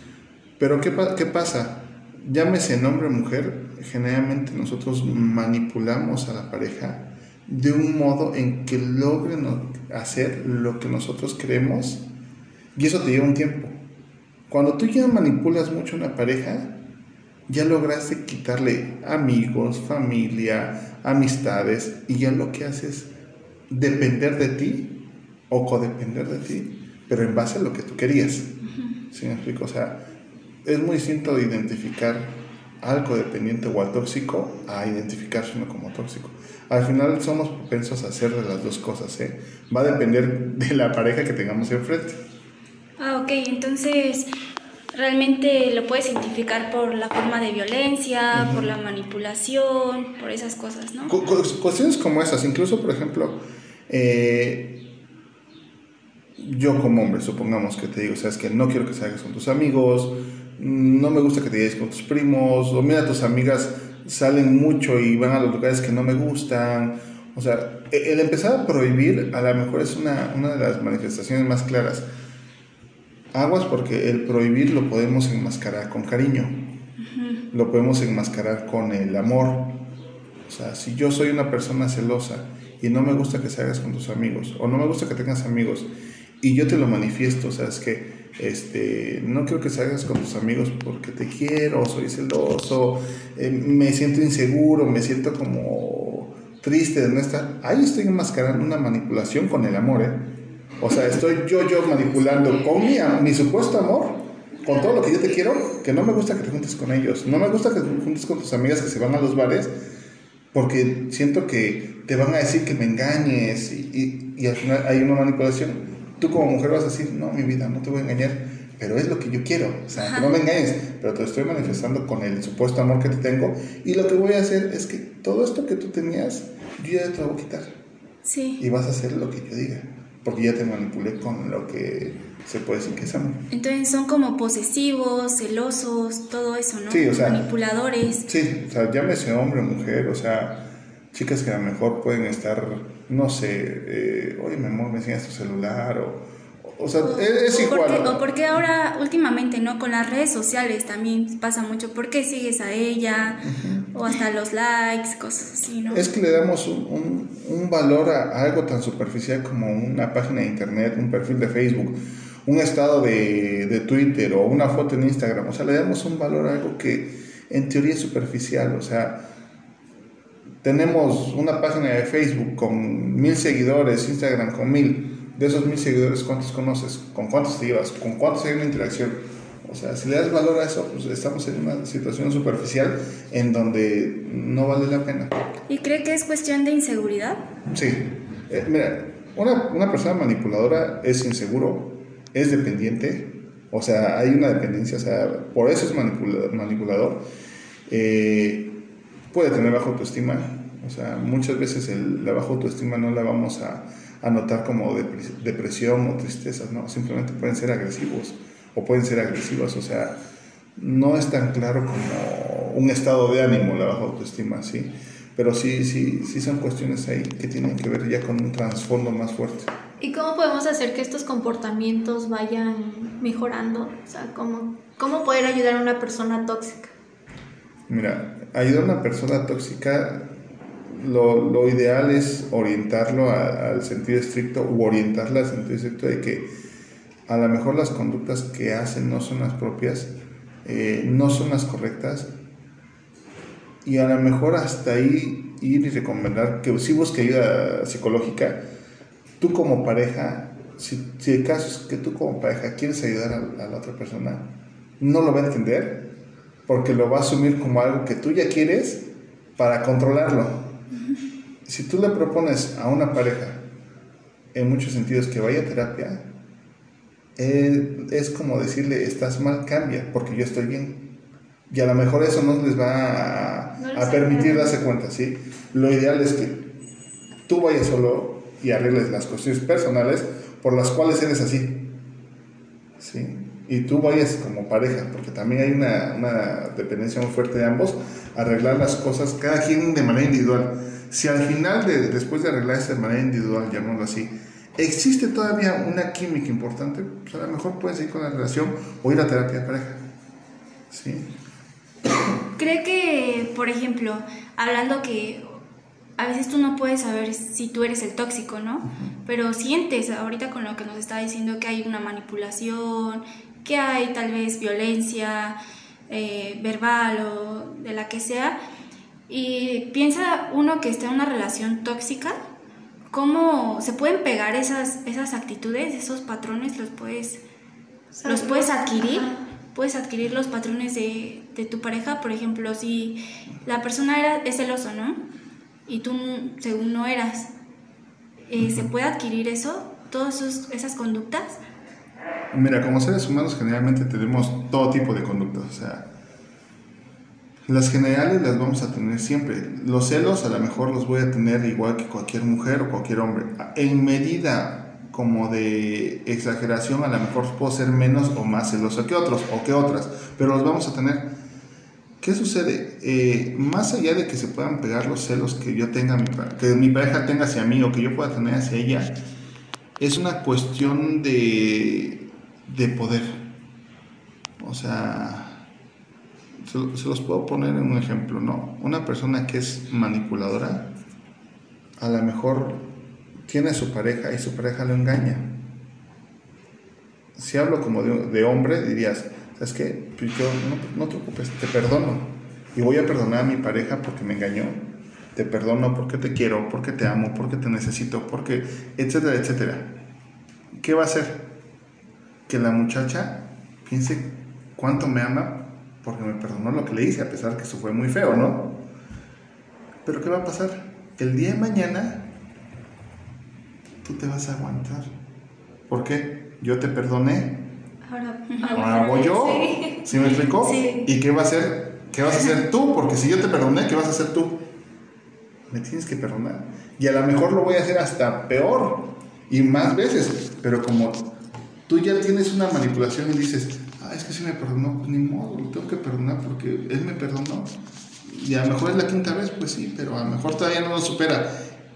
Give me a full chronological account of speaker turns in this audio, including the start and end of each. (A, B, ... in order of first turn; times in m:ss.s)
0:00.6-0:12.1 A
0:12.8-0:13.8 A
0:14.5-0:16.8 A
0:17.5-0:23.1 A
0:23.7-0:28.5 A
0:28.7-0:29.0 B
0:29.1-0:30.0 A
0:30.6-0:42.2 A
0:43.0-0:44.3 B
0:44.9-0:51.2 B
0:48.3-0:48.7 A
0:51.1-0:54.8 A
0:56.4-1:12.1 A
1:13.3-1:16.7 A
1:17.0-1:17.4 B
1:17.5-1:19.8 A
1:20.5-1:49.8 A
1:50.5-2:07.8 A
1:59.9-2:00.3 B
2:08.2-2:08.6 B
2:08.6-2:13.5 A
2:13.5-2:18.2 B
2:16.9-2:17.4 A
2:18.2-2:28.6 A
2:27.0-2:36.1 B
2:33.4-2:33.9 A
2:35.9-2:49.3 A
2:50.6-3:05.4 A
3:05.7-3:07.4 B
3:07.7-3:17.3 A
3:17.9-3:18.8 A
3:19.3-3:30.2 A
3:30.8-3:39.7 A
3:40.0-3:46.9 C
3:47.9-3:50.3 A
3:50.9-3:56.5 A
3:57.3-4:02.3 A
4:03.8-4:08.6 A
4:09.4-4:16.1 A
4:16.7-4:20.7 A
4:21.7-4:23.6 A
4:24.5-4:26.3 A
4:27.4-4:31.1 A
4:31.7-4:36.7 A
4:33.8-4:34.8 C
4:37.5-4:41.9 A
4:43.0-5:00.1 A
5:00.9-5:01.3 A
5:02.6-5:05.6 B
5:06.2-5:15.6 B
5:16.1-5:18.6 B
5:19.3-5:22.4 B
5:23.1-5:27.4 B
5:28.1-5:29.4 C
5:28.2-5:35.2 B
5:35.9-5:37.5 B
5:38.5-5:41.6 B
5:42.5-5:46.1 A
5:47.7-6:01.4 A
6:02.2-6:09.2 A
6:10.0-6:13.5 A
6:14.6-6:15.6 A
6:16.6-6:20.9 A
6:22.0-6:22.9 A
6:23.5-6:25.6 A
6:27.4-6:40.0 A
6:40.7-6:41.5 A
6:42.5-6:48.8 A
6:50.0-6:52.3 A
6:54.0-6:55.1 A
6:55.9-6:57.6 A
6:58.0-7:00.1 C
6:58.5-6:58.8 B
6:58.7-7:04.7 A
7:00.6-7:01.0 B
7:05.7-7:11.4 A
7:11.9-7:17.7 A
7:18.2-7:21.7 A